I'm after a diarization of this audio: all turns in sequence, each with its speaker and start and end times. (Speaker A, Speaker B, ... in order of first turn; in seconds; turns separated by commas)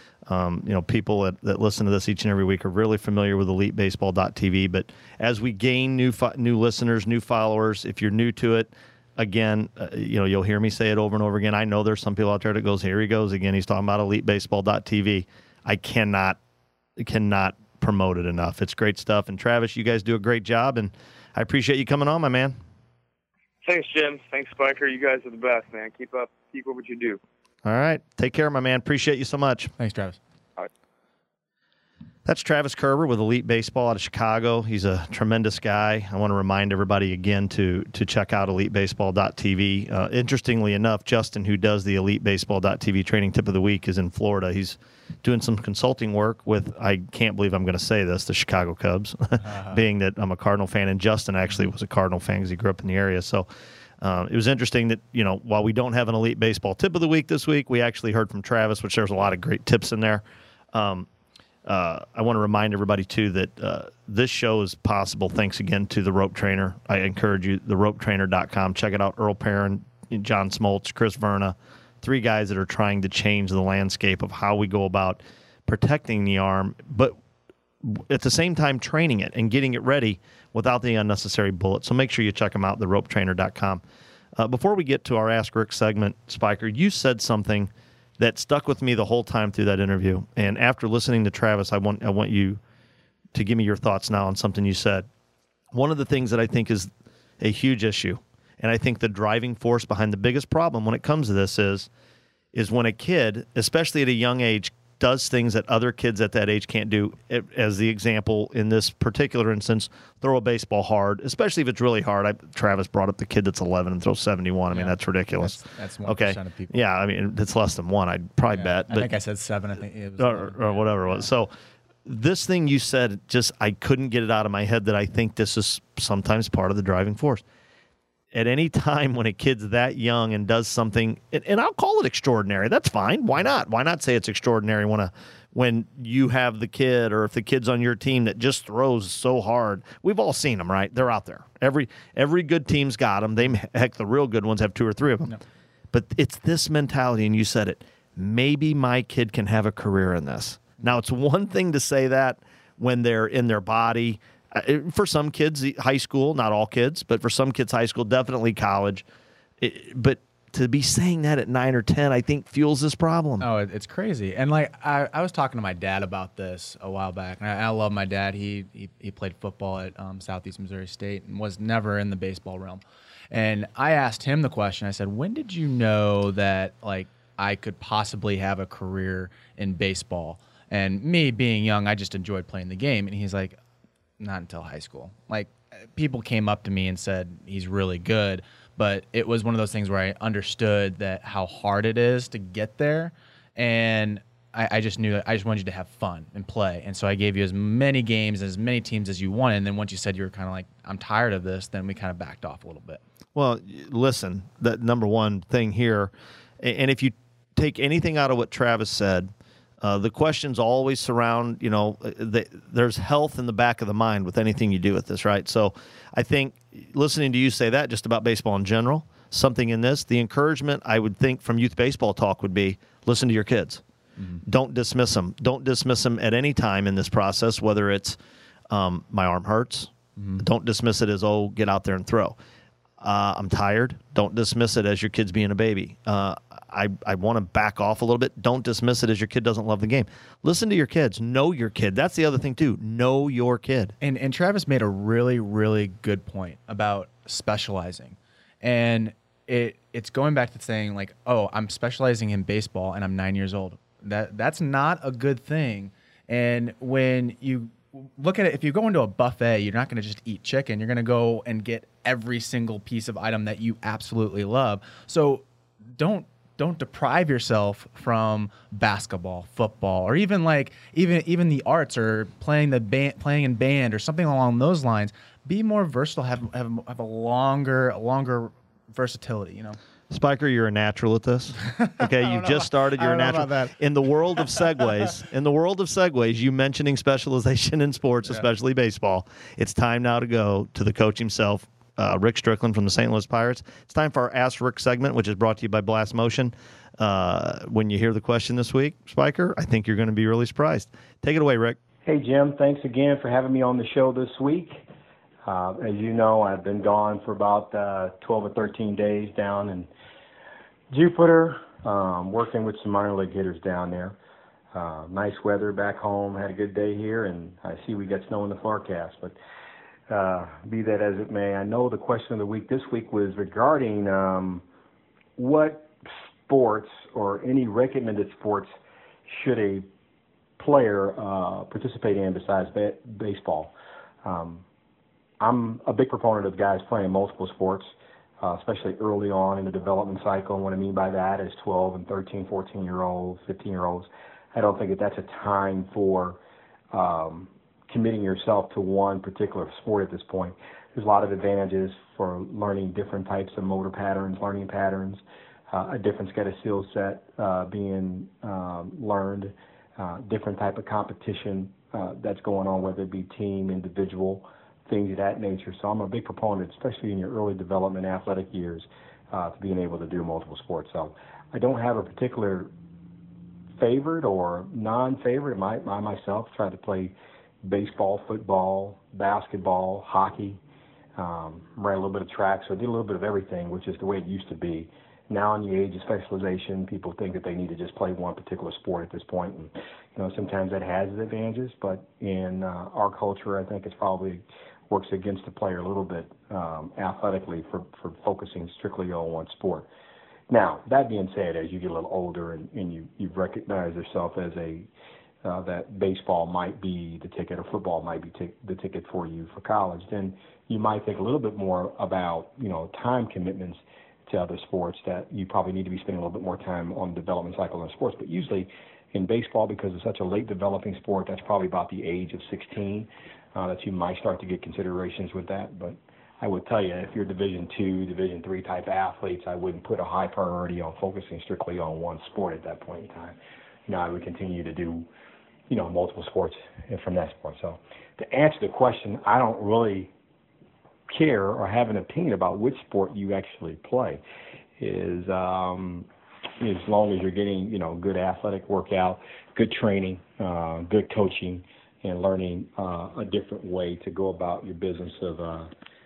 Speaker A: 0.3-16.4, Speaker A: 17.0-22.6, Speaker B: 23.6-27.2, Speaker A: 27.6-29.7, Speaker C: 29.8-30.2, Speaker A: 32.2-53.5, Speaker C: 49.5-49.8, Speaker A: 54.0-61.1, Speaker A: 61.6-77.2, Speaker A: 77.8-83.8, Speaker A: 84.3-92.6, Speaker A: 93.3-95.1, Speaker A: 95.7-101.9, Speaker A: 102.5-119.1, Speaker C: 114.7-116.8, Speaker C: 118.5-121.3, Speaker A: 120.2-121.5, Speaker A: 122.0-127.4, Speaker A: 128.3-145.3, Speaker A: 145.9-159.0, Speaker A: 159.6-163.4, Speaker C: 163.4-183.6, Speaker C: 184.2-203.0, Speaker A: 203.3-223.8, Speaker C: 224.2-224.4, Speaker A: 224.4-228.2, Speaker A: 228.7-232.3, Speaker C: 230.2-230.4, Speaker A: 233.0-243.9, Speaker C: 244.0-265.4, Speaker C: 265.9-279.8, Speaker A: 280.1-301.8, Speaker C: 281.7-283.7, Speaker C: 284.3-284.6, Speaker D: 302.1-304.8, Speaker D: 305.4-309.9, Speaker D: 310.9-314.2, Speaker D: 314.7-319.4, Speaker D: 320.1-324.6, Speaker D: 325.4-325.9, Speaker D: 326.5-328.7, Speaker D: 329.3-329.9, Speaker D: 330.6-333.7, Speaker D: 334.2-334.6, Speaker D: 335.4-346.4, Speaker D: 346.9-372.7, Speaker D: 373.8-380.6, Speaker D: 381.1-399.9, Speaker D: 400.5-404.9, Speaker D: 405.4-433.4, Speaker D: 433.9-435.1, Speaker D: 435.7-440.1, Speaker D: 441.1-444.2, Speaker D: 444.8-446.1, Speaker D: 446.6-455.7